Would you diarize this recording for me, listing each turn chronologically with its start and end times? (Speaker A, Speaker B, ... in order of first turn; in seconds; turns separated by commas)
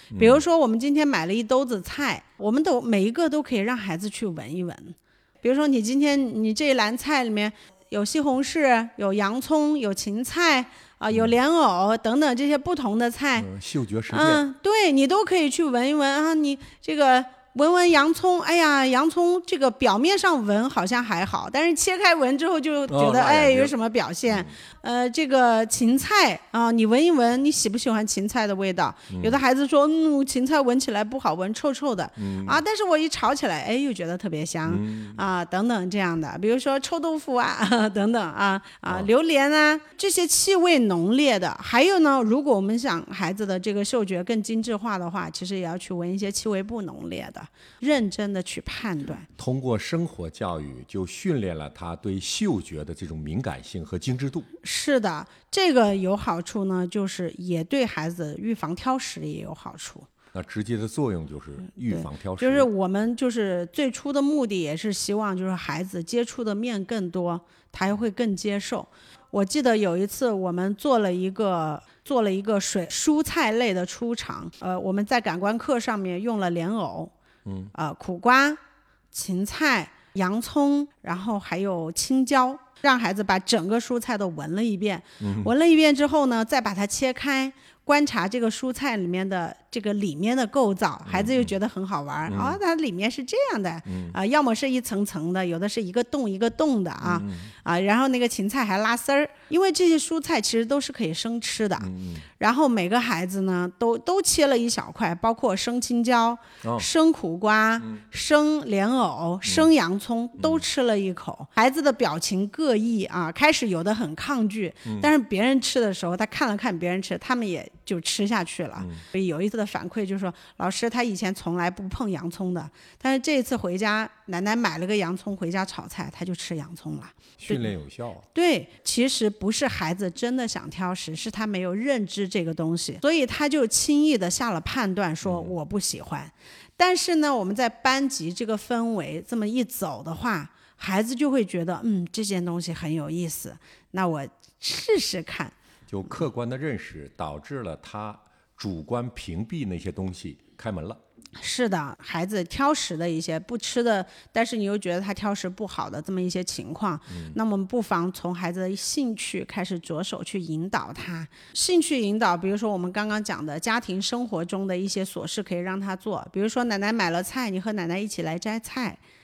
Speaker A: 0.1-0.4, Speaker B: 0.2-13.5, Speaker A: 13.4-14.4, Speaker B: 14.1-49.3, Speaker A: 22.9-23.7, Speaker A: 29.1-29.4, Speaker A: 32.2-32.6, Speaker A: 34.7-35.2, Speaker A: 49.4-54.5, Speaker B: 54.6-60.1, Speaker A: 60.3-62.7, Speaker B: 61.9-77.1, Speaker A: 77.5-77.7, Speaker B: 77.7-78.6, Speaker B: 79.1-127.7, Speaker A: 85.2-85.5, Speaker A: 91.1-91.5, Speaker A: 92.3-92.6, Speaker A: 93.9-94.2, Speaker A: 97.0-97.5, Speaker A: 101.8-102.3, Speaker A: 109.5-109.7, Speaker A: 110.4-110.6, Speaker A: 118.8-119.0, Speaker A: 127.4-128.2, Speaker B: 128.3-145.6, Speaker A: 135.2-135.6, Speaker A: 145.9-151.0, Speaker B: 151.4-169.0, Speaker A: 157.1-157.4